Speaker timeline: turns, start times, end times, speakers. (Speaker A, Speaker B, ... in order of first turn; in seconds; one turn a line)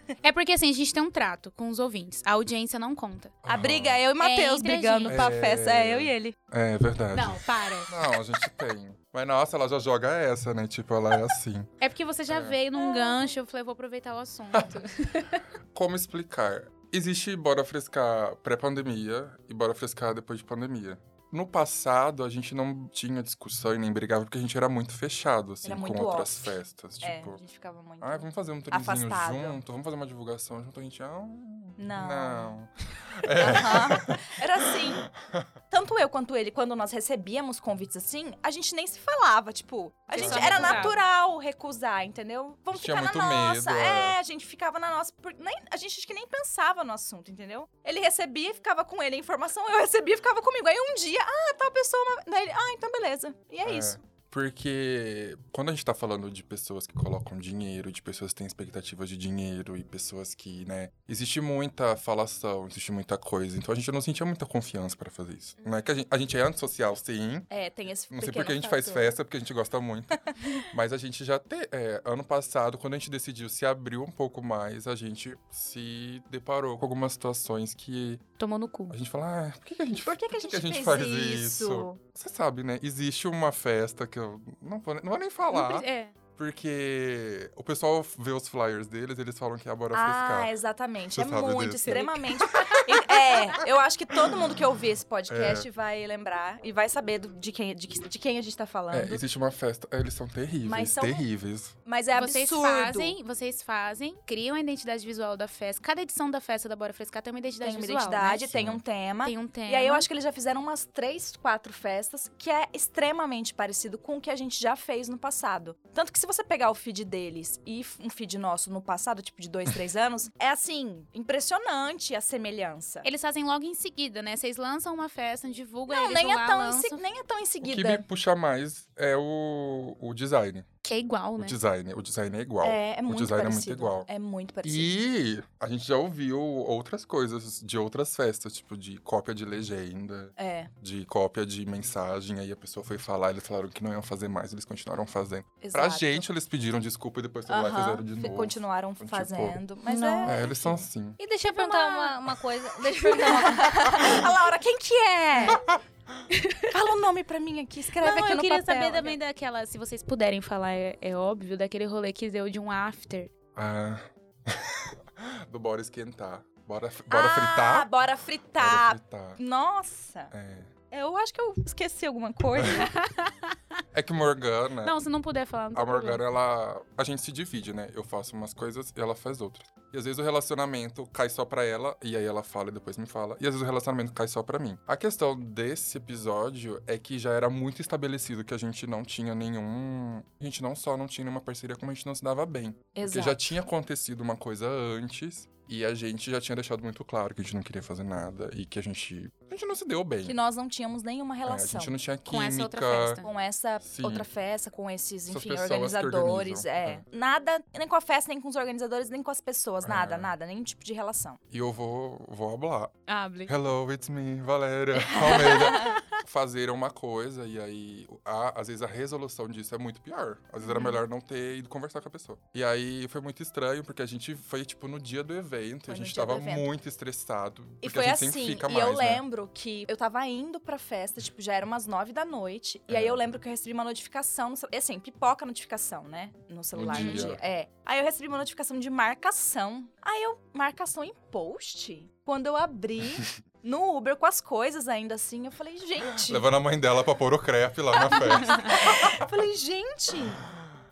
Speaker A: 0.2-3.3
Speaker B: 3.4-4.0
Speaker C: 3.5-6.3
Speaker A: 4.2-5.3
Speaker B: 5.0-11.8
Speaker A: 7.1-7.9
Speaker A: 11.8-15.4
Speaker B: 12.3-12.6
Speaker C: 12.8-13.2
Speaker B: 15.7-27.4
Speaker C: 25.6-29.6
Speaker B: 28.0-35.5
Speaker C: 31.8-32.5
Speaker C: 33.4-35.1
Speaker C: 35.7-54.0
Speaker A: 40.1-41.0
Speaker B: 40.1-41.0
Speaker B: 42.7-44.1
Speaker B: 53.6-67.5
Speaker C: 67.5-69.1
Speaker B: 68.1-78.2
Speaker A: 78.4-79.0
Speaker B: 78.9-90.5
Speaker C: 79.9-82.0
Speaker A: 85.5-86.1
Speaker C: 89.9-99.2
Speaker B: 91.1-92.2
Speaker A: 91.8-93.0
Speaker B: 95.3-95.7
Speaker B: 98.9-101.8
Speaker C: 100.6-101.2
Speaker C: 101.8-103.1
Speaker A: 102.1-108.5
Speaker C: 107.6-123.1
Speaker B: 108.5-108.8
Speaker A: 109.2-110.1
Speaker A: 123.0-127.0
Speaker C: 125.9-128.0
Speaker B: 127.6-130.7
Speaker A: 130.8-131.6
Speaker B: 131.4-134.1
Speaker C: 132.6-134.9
Speaker B: 134.6-149.6
Speaker C: 140.4-140.7
Speaker C: 145.6-146.2
Speaker C: 147.5-150.4
Speaker D: 149.8-150.4
Speaker B: 150.2-151.2
Speaker D: 151.2-154.3
Speaker A: 151.5-152.2
Speaker C: 153.0-155.6
Speaker A: 153.1-153.4
Speaker B: 155.4-155.8
Speaker A: 156.3-156.7
Speaker C: 156.7-159.2
Speaker A: 158.0-163.3
Speaker B: 163.5-167.9
Speaker C: 167.1-170.3
Speaker B: 168.6-169.4
Speaker B: 170.3-170.7
Speaker C: 170.9-172.9
Speaker A: 172.8-173.3
Speaker B: 173.9-175.0
Speaker A: 174.8-176.2
Speaker B: 175.7-200.4
Speaker C: 192.9-193.4
Speaker C: 200.2-201.9
Speaker B: 201.4-203.2
Speaker A: 202.3-203.3
Speaker C: 203.2-211.4
Speaker B: 203.8-204.3
Speaker B: 205.3-207.0
Speaker B: 209.8-210.3
Speaker B: 211.5-212.9
Speaker A: 213.1-213.5
Speaker B: 213.4-229.2
Speaker C: 215.1-216.0
Speaker A: 215.4-216.0
Speaker C: 225.9-226.7
Speaker C: 227.8-246.4
Speaker B: 232.9-233.2
Speaker B: 236.7-237.4
Speaker B: 246.1-248.9
Speaker C: 247.9-250.4